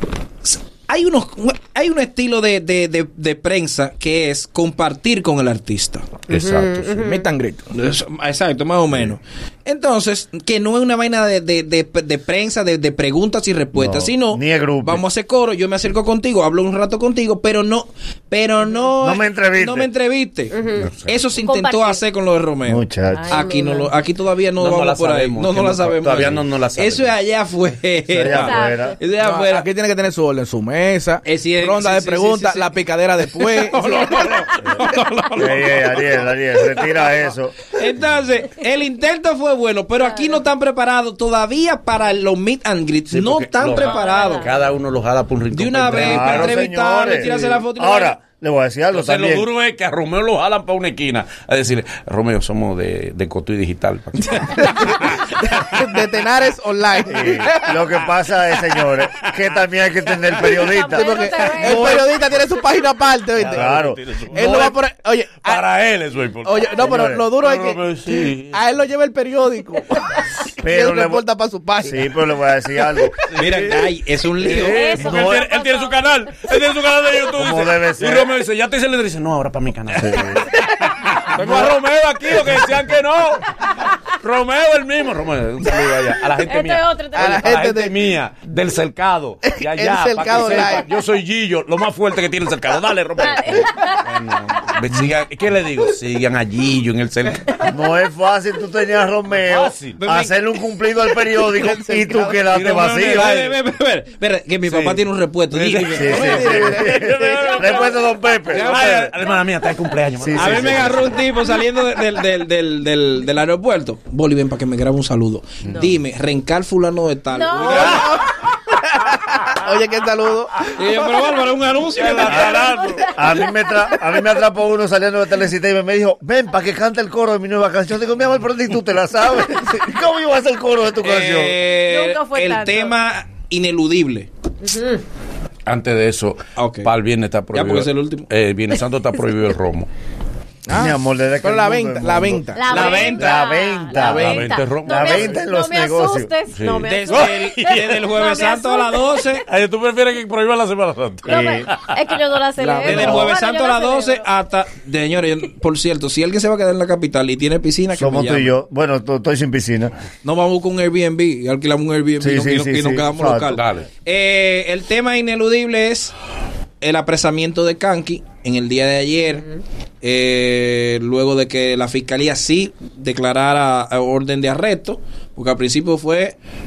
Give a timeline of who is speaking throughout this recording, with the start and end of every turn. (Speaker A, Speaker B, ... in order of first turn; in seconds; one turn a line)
Speaker A: 0.5-6.1
Speaker B: 6.3-7.0
Speaker C: 6.3-7.3
Speaker D: 7.0-7.6
Speaker A: 7.7-29.7
Speaker E: 13.7-15.0
Speaker E: 19.0-19.9
Speaker C: 20.5-22.0
Speaker B: 20.8-21.1
Speaker E: 22.7-23.5
Speaker C: 23.1-23.9
Speaker B: 24.6-27.2
Speaker E: 28.1-29.0
Speaker C: 28.3-29.0
Speaker D: 29.2-34.0
Speaker A: 31.2-32.7
Speaker A: 33.3-36.0
Speaker E: 35.4-37.6
Speaker A: 37.7-44.5
Speaker C: 40.0-40.4
Speaker B: 43.1-46.6
Speaker C: 43.7-44.7
Speaker A: 45.5-48.2
Speaker E: 45.9-49.5
Speaker D: 47.2-47.5
Speaker B: 48.9-55.7
Speaker D: 54.4-57.8
Speaker E: 57.1-62.1
Speaker C: 60.6-62.2
Speaker D: 60.9-65.6
Speaker B: 63.4-64.8
Speaker E: 63.4-64.0
Speaker B: 65.4-68.8
Speaker D: 66.5-70.1
Speaker E: 66.8-67.3
Speaker E: 70.6-71.2
Speaker D: 70.6-72.1
Speaker E: 71.8-73.2
Speaker B: 73.2-73.8
Speaker A: 73.3-74.9
Speaker B: 74.4-83.6
Speaker C: 74.4-76.5
Speaker E: 74.5-75.5
Speaker E: 77.3-78.3
Speaker E: 79.9-80.5
Speaker B: 84.1-97.6
Speaker C: 86.4-87.6
Speaker D: 87.1-88.0
Speaker D: 89.4-90.9
Speaker C: 93.2-94.1
Speaker E: 97.7-103.5
Speaker B: 99.4-100.0
Speaker A: 100.0-100.3
Speaker D: 101.5-102.5
Speaker B: 102.5-103.5
Speaker A: 103.0-106.4
Speaker B: 104.7-105.0
Speaker B: 105.5-111.3
Speaker E: 105.9-109.1
Speaker D: 106.1-107.5
Speaker A: 108.5-109.1
Speaker E: 110.2-110.9
Speaker A: 110.4-118.1
Speaker C: 115.7-115.9
Speaker C: 117.3-118.3
Speaker B: 117.7-118.2
Speaker D: 117.7-118.3
Speaker D: 118.8-120.7
Speaker A: 120.7-122.6
Speaker B: 122.0-123.1
Speaker C: 122.1-124.2
Speaker E: 122.3-131.6
Speaker A: 131.0-134.3
Speaker C: 131.7-133.0
Speaker C: 134.6-135.0
Speaker B: 135.7-139.9
Speaker A: 136.6-136.9
Speaker A: 137.5-138.3
Speaker D: 140.7-143.1
Speaker E: 140.7-146.3
Speaker C: 142.5-149.3
Speaker A: 142.7-143.5
Speaker B: 144.0-145.4
Speaker D: 144.0-144.4
Speaker B: 146.5-148.2
Speaker A: 146.8-149.4
Speaker B: 149.4-152.2
Speaker E: 151.3-151.7
Speaker C: 151.3-154.2
Speaker D: 152.6-153.0
Speaker A: 152.8-158.5
Speaker E: 152.9-153.3
Speaker E: 157.9-159.9
Speaker A: 160.2-166.1
Speaker E: 162.2-163.6
Speaker B: 163.5-163.9
Speaker A: 166.8-169.4
Speaker A: 170.0-176.4